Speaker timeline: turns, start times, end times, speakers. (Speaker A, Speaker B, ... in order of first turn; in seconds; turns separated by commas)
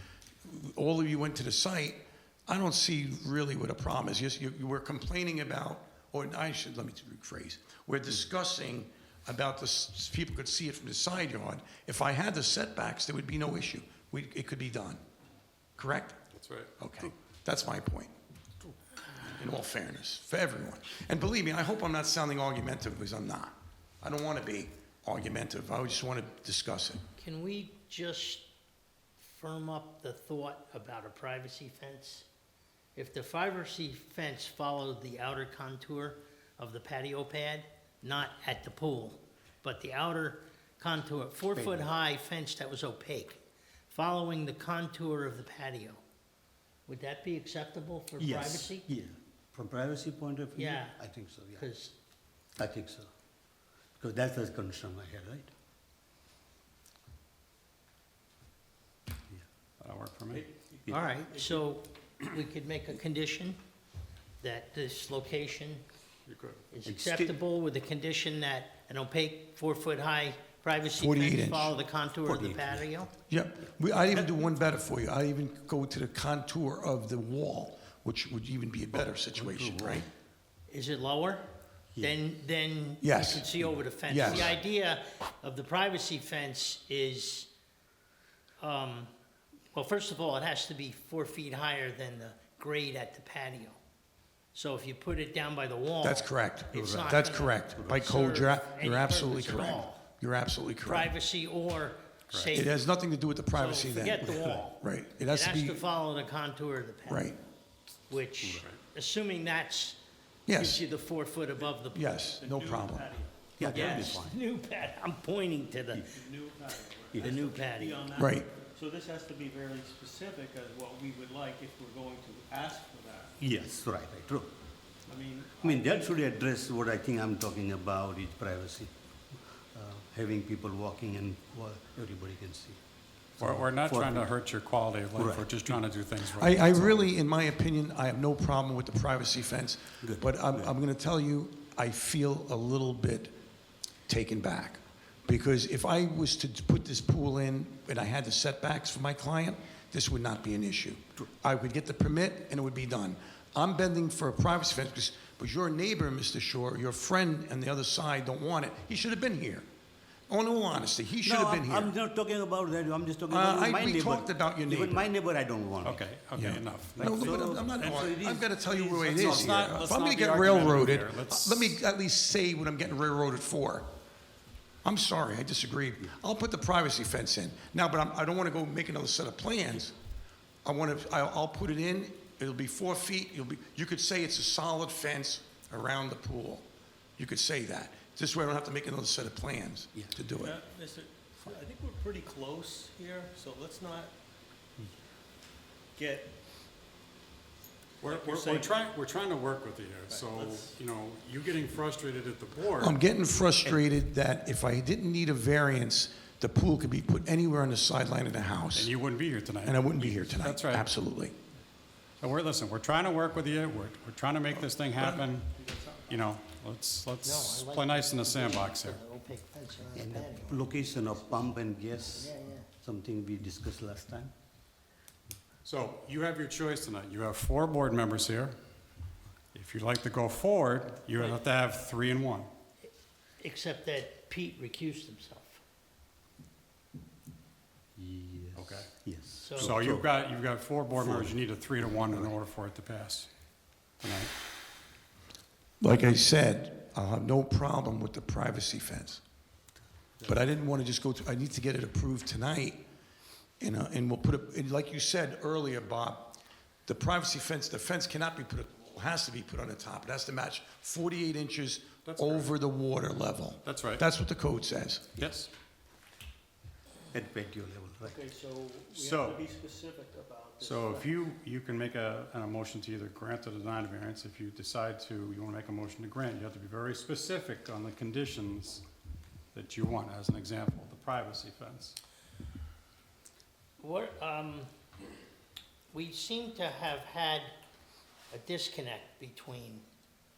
Speaker A: 0.4-15.0, Speaker A: 15.8-16.2, Speaker B: 16.3-16.7, Speaker A: 16.8-18.1, Speaker A: 19.2-27.0, Speaker C: 27.2-28.5, Speaker C: 29.2-32.3, Speaker C: 33.0-46.0, Speaker D: 41.5-41.9, Speaker C: 46.9-48.9, Speaker D: 48.2-51.6, Speaker C: 50.5-51.9, Speaker D: 52.6-53.1, Speaker D: 54.0-55.5, Speaker B: 59.8-60.4, Speaker E: 60.3-61.6, Speaker C: 60.9-63.6, Speaker C: 64.4-65.8, Speaker B: 66.3-66.6, Speaker C: 66.7-73.1, Speaker D: 66.8-67.4, Speaker A: 71.0-71.7, Speaker D: 72.2-73.0, Speaker A: 73.3-80.1, Speaker D: 74.0-74.3, Speaker D: 79.0-80.0, Speaker C: 80.7-81.4, Speaker C: 82.0-87.5, Speaker A: 83.0-84.5, Speaker C: 88.6-89.1, Speaker C: 89.7-93.8, Speaker C: 94.5-100.0, Speaker A: 96.0-101.1, Speaker D: 96.8-97.2, Speaker C: 100.8-102.8, Speaker B: 102.3-102.6, Speaker A: 102.5-105.8, Speaker C: 103.5-107.3, Speaker A: 107.1-107.4, Speaker C: 108.1-110.0, Speaker A: 110.5-110.8, Speaker C: 110.5-112.2, Speaker A: 111.9-113.1, Speaker E: 112.3-114.1, Speaker D: 113.6-114.4, Speaker C: 113.6-116.1, Speaker E: 116.1-123.4, Speaker D: 117.1-117.4, Speaker C: 117.2-118.1, Speaker A: 118.2-118.5, Speaker D: 123.4-124.5, Speaker E: 125.1-126.2, Speaker D: 125.6-128.9, Speaker D: 129.7-132.8, Speaker D: 133.4-134.3, Speaker B: 133.4-136.9, Speaker D: 135.1-135.8, Speaker A: 136.3-143.4, Speaker D: 140.0-140.7, Speaker A: 144.1-159.7, Speaker A: 160.3-161.9, Speaker D: 161.2-166.1, Speaker A: 163.3-165.1, Speaker B: 165.8-167.4, Speaker A: 166.3-173.9, Speaker D: 167.0-169.8, Speaker E: 167.8-168.2, Speaker E: 168.9-169.8, Speaker B: 169.2-171.8, Speaker A: 174.8-179.9, Speaker A: 180.6-186.7, Speaker A: 187.2-190.6, Speaker E: 190.4-194.1, Speaker E: 195.9-196.4, Speaker B: 198.0-203.0, Speaker E: 198.0-198.8, Speaker E: 200.1-200.8, Speaker A: 202.8-208.9, Speaker B: 208.7-210.9, Speaker A: 209.6-211.3, Speaker B: 212.2-215.5, Speaker A: 214.5-215.2, Speaker E: 215.5-216.3, Speaker B: 216.1-219.0, Speaker C: 217.2-221.3, Speaker D: 219.9-224.3, Speaker E: 220.6-222.0, Speaker C: 222.1-222.7, Speaker B: 225.6-228.5, Speaker B: 229.5-232.5, Speaker C: 232.8-235.6, Speaker D: 237.9-240.1, Speaker B: 238.6-238.9, Speaker C: 239.4-239.7, Speaker B: 239.6-243.3, Speaker D: 240.9-241.3, Speaker B: 244.0-244.3, Speaker A: 245.8-249.2, Speaker A: 250.2-252.8, Speaker A: 253.6-265.1, Speaker B: 262.0-262.5, Speaker B: 263.6-264.0, Speaker B: 265.2-265.5, Speaker D: 267.1-268.2, Speaker E: 268.0-271.1, Speaker B: 268.9-269.5, Speaker B: 270.6-278.8, Speaker B: 279.5-282.0, Speaker C: 283.8-284.7, Speaker C: 285.9-287.5, Speaker C: 288.3-289.8